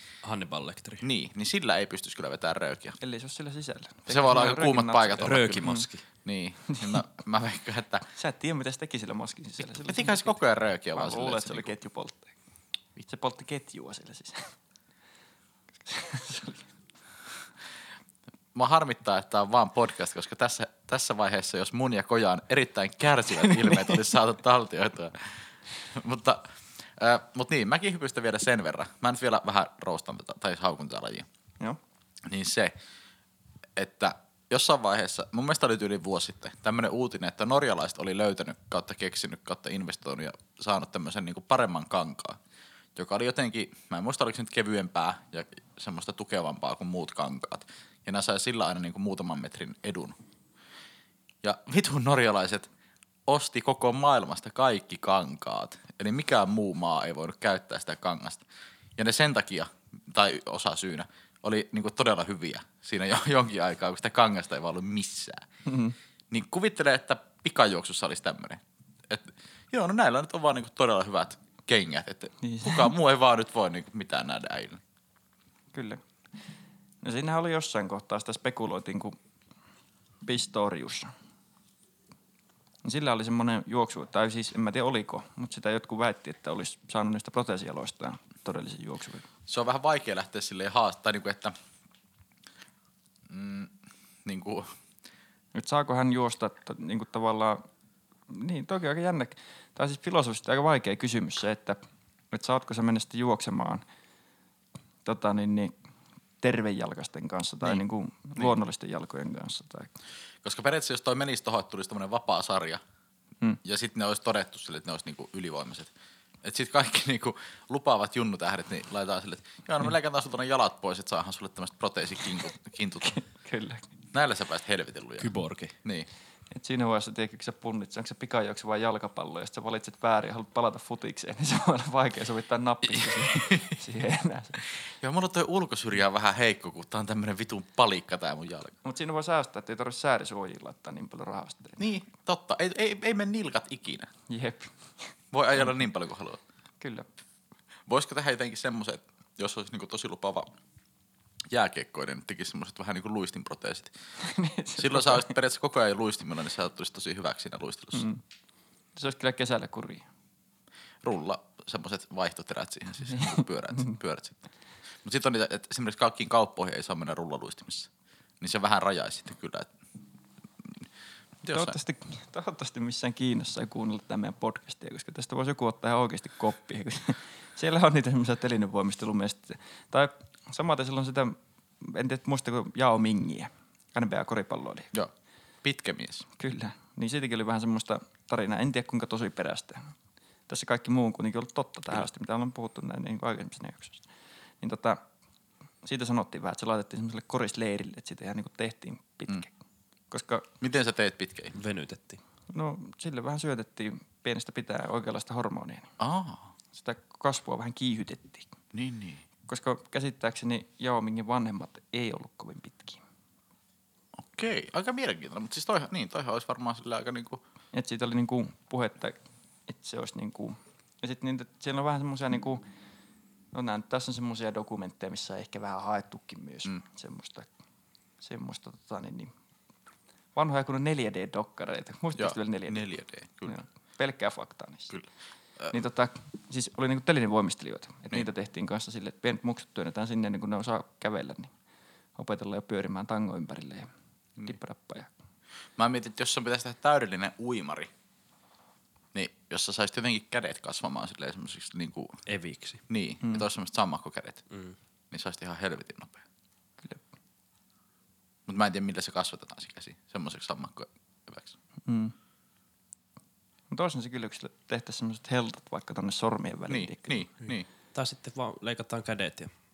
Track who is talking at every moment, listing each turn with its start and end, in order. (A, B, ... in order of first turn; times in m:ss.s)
0:00.2-0:01.0 A
0:01.0-0:03.0 B
0:03.0-0:05.9 C
0:04.1-0:08.0 B
0:05.2-0:06.0 A
0:06.7-0:07.0 C
0:08.1-0:10.4 C
0:09.8-0:11.7 B
0:10.9-0:12.3 C
0:13.0-0:14.5 C
0:15.9-0:16.7 C
0:18.5-0:31.2 B
0:23.4-0:23.9 C
0:32.2-0:32.7 B
0:33.8-0:42.4 B
0:42.9-0:50.2 B
0:51.4-0:52.7 B
0:53.3-0:58.4 B
0:59.0-1:05.4 B
1:05.6-1:05.9 C
1:06.3-1:14.8 B
1:12.4-1:12.9 C
1:15.7-1:16.0 C
1:17.0-1:19.2 C
1:20.2-1:21.1 C
1:22.8-1:29.2 C
1:29.5-1:31.5 B
1:33.3-1:34.7 B
1:35.5-1:37.6 C
1:38.3-1:41.8 C
1:42.3-1:43.8 C
1:45.0-1:45.7 C
1:46.4-1:49.9 C
1:50.4-1:52.8 B
1:53.6-1:55.9 B
1:56.4-2:03.2 B
2:03.0-2:03.9 C
2:04.1-2:05.3 B
2:05.2-2:05.7 A
2:05.8-2:06.1 B
2:06.5-2:14.6 C
2:13.0-2:13.8 B
2:15.0-2:18.8 B
2:18.8-2:21.8 C
2:21.8-2:24.1 B
2:24.3-2:24.7 C
2:25.3-2:26.4 B
2:26.8-2:27.1 C
2:27.9-2:30.5 B
2:31.5-2:33.9 B
2:34.2-2:35.3 C
2:34.8-2:38.1 B
2:37.9-2:38.2 C
2:38.9-2:40.0 C
2:41.0-2:44.4 B
2:45.0-2:47.9 B
2:48.4-2:49.7 B
2:51.4-2:51.8 B
2:51.5-3:04.9 C
3:05.6-3:06.2 B
3:06.4-3:09.9 C
3:10.5-3:14.0 C
3:14.6-3:15.0 C
3:15.8-3:19.5 C
3:20.1-3:20.4 C
3:20.6-3:21.5 B
3:21.5-3:22.2 A
3:22.5-3:25.9 C
3:26.0-3:26.5 B
3:26.8-3:28.5 C
3:28.7-3:29.2 B
3:29.5-3:33.0 C
3:34.2-3:37.4 B
3:37.7-3:42.6 C
3:43.5-3:47.5 C
3:48.2-3:49.3 C
3:50.3-3:52.9 C
3:52.2-3:53.6 B
3:53.5-3:54.9 C
3:55.7-4:01.5 C
4:02.2-4:03.9 C
4:04.4-4:05.1 C
4:05.8-4:07.9 B
4:09.1-4:12.2 B
4:12.3-4:12.8 A
4:12.9-4:14.4 B
4:15.1-4:16.2 B
4:18.5-4:21.6 B
4:21.9-4:22.1 C
4:23.7-4:27.2 C
4:26.7-4:27.7 B
4:27.9-4:29.5 A